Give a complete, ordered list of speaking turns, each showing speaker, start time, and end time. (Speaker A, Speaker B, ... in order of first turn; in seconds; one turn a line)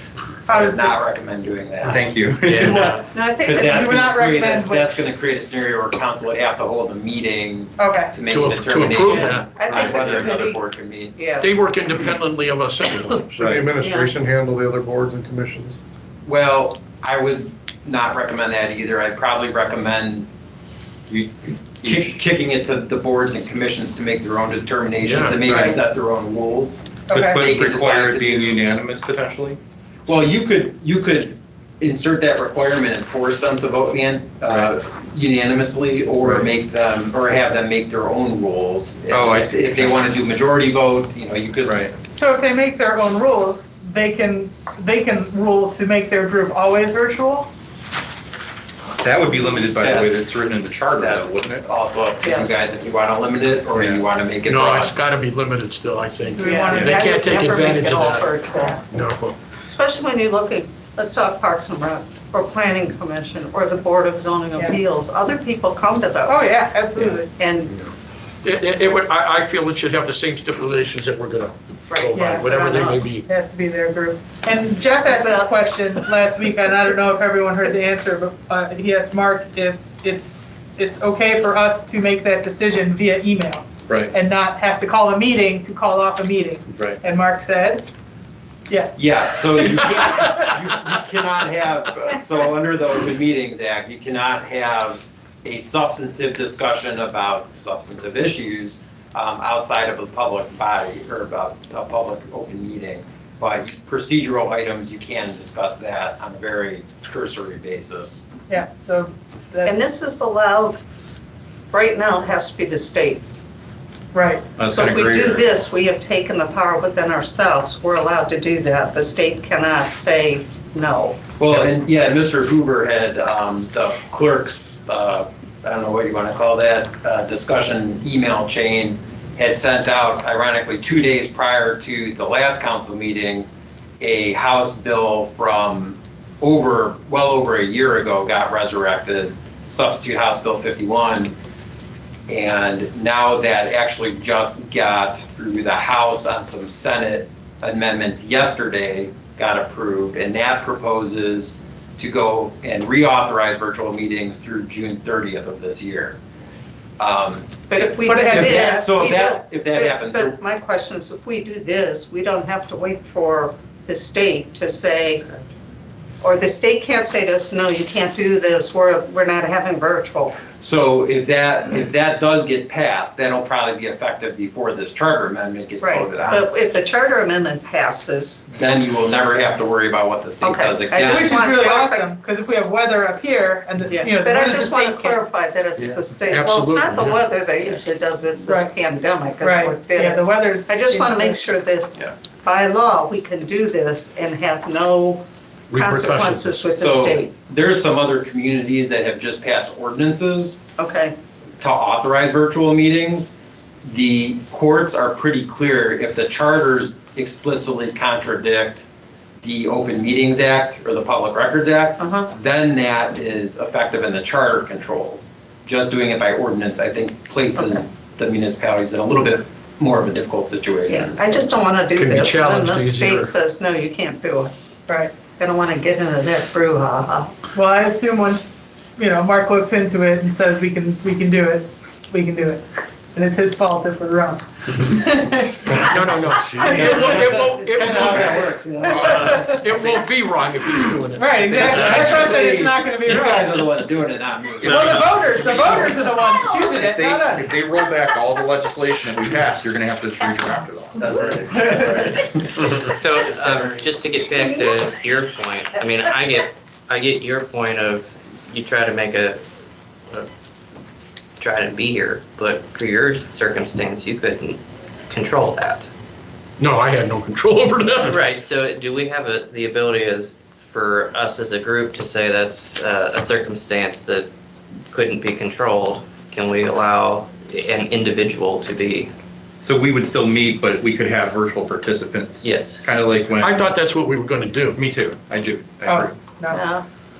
Speaker A: 0.5-1.0
Speaker B: 0.5-2.0
Speaker C: 1.8-3.0
Speaker D: 2.4-3.0
Speaker A: 2.6-3.0
Speaker E: 3.1-3.9
Speaker B: 3.4-11.3
Speaker A: 3.6-5.0
Speaker A: 7.8-8.2
Speaker F: 8.3-9.5
Speaker E: 9.1-10.6
Speaker D: 9.7-10.3
Speaker E: 11.2-11.5
Speaker F: 11.4-13.5
Speaker C: 13.4-13.7
Speaker G: 13.4-15.8
Speaker E: 13.8-14.1
Speaker B: 16.3-20.3
Speaker B: 21.1-28.7
Speaker F: 25.0-25.5
Speaker A: 27.1-27.4
Speaker C: 27.1-29.6
Speaker B: 30.1-41.9
Speaker C: 36.2-36.5
Speaker C: 39.1-40.0
Speaker C: 41.6-41.9
Speaker A: 42.1-47.5
Speaker C: 49.0-51.7
Speaker B: 49.8-54.9
Speaker E: 52.2-52.6
Speaker C: 53.7-54.0
Speaker F: 54.5-58.3
Speaker A: 56.4-57.5
Speaker E: 56.4-58.9
Speaker F: 58.9-59.4
Speaker E: 59.6-66.5
Speaker A: 66.3-67.3
Speaker E: 67.0-67.8
Speaker F: 68.4-73.2
Speaker E: 71.9-73.1
Speaker A: 72.1-72.6
Speaker A: 73.2-87.8
Speaker E: 75.0-75.5
Speaker A: 88.7-90.5
Speaker B: 89.0-108.2
Speaker A: 108.5-109.8
Speaker E: 109.7-110.8
Speaker E: 111.7-113.2
Speaker A: 114.1-114.5
Speaker C: 114.6-115.5
Speaker E: 114.7-121.3
Speaker B: 121.4-133.5
Speaker B: 134.0-141.3
Speaker B: 142.3-156.2
Speaker B: 157.0-160.4
Speaker E: 157.7-165.2
Speaker A: 158.0-158.8
Speaker E: 166.2-170.4
Speaker B: 170.5-176.5
Speaker E: 175.8-178.4
Speaker B: 178.5-181.3
Speaker E: 180.4-182.1
Speaker A: 181.0-185.2
Speaker E: 183.9-197.3
Speaker F: 185.8-187.2
Speaker A: 188.4-188.7
Speaker A: 189.4-191.4
Speaker F: 195.7-196.7
Speaker B: 196.7-200.6
Speaker E: 200.8-201.2
Speaker B: 201.6-203.3
Speaker B: 203.8-208.8
Speaker B: 209.4-221.2
Speaker E: 212.0-212.3
Speaker E: 220.9-224.5
Speaker F: 221.9-223.3
Speaker A: 224.9-225.1
Speaker E: 225.4-227.3
Speaker A: 227.5-235.9
Speaker F: 235.8-238.5
Speaker B: 235.9-237.1
Speaker A: 236.6-237.1
Speaker E: 236.9-239.4
Speaker B: 238.1-238.4
Speaker A: 238.8-239.6
Speaker F: 239.1-242.4
Speaker A: 241.2-243.7
Speaker B: 241.5-246.0
Speaker C: 244.6-252.2
Speaker A: 244.6-247.5
Speaker D: 252.8-259.4
Speaker D: 261.4-265.9
Speaker F: 266.6-268.2
Speaker D: 268.0-274.3
Speaker D: 274.9-279.1
Speaker C: 279.6-283.7
Speaker D: 282.4-282.8
Speaker F: 283.4-284.8
Speaker C: 284.7-286.1
Speaker A: 285.9-286.6
Speaker E: 286.5-286.8